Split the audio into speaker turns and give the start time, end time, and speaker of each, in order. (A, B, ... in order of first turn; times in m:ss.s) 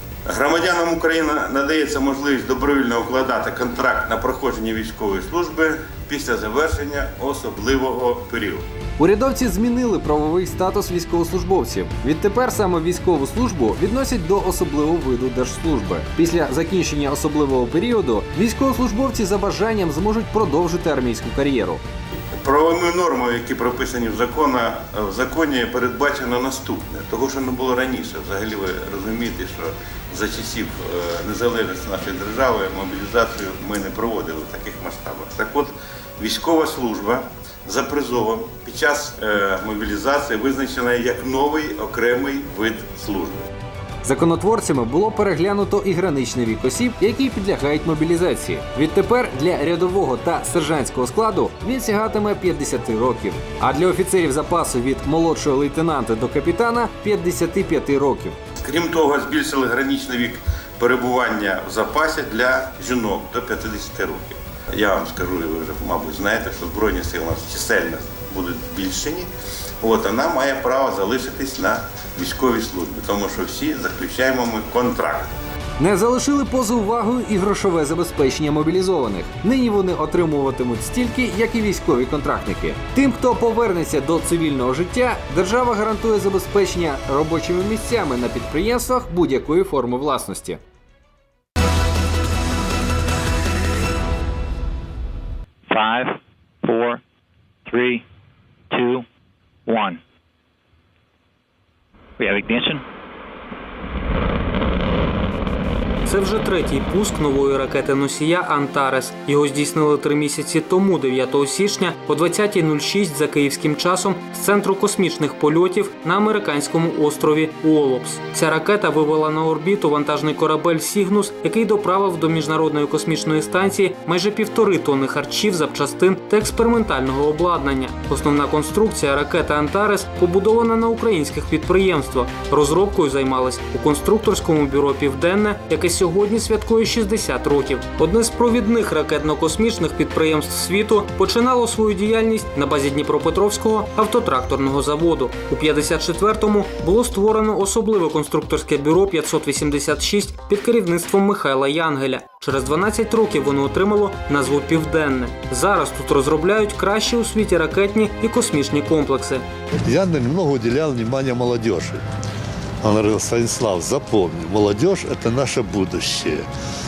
0:00.2-0:08.6 A
0:09.0-0:21.8 B
0:22.4-0:43.5 A
0:44.0-0:58.4 B
0:58.6-1:09.3 A
1:09.8-1:15.3 A
1:15.8-1:30.6 B
1:35.7-1:37.0 C
1:37.6-1:38.0 C
1:38.7-1:39.0 C
1:39.6-1:40.0 C
1:42.2-1:42.8 C
1:46.0-2:39.4 D
2:39.8-2:42.0 E
2:42.8-2:46.5 E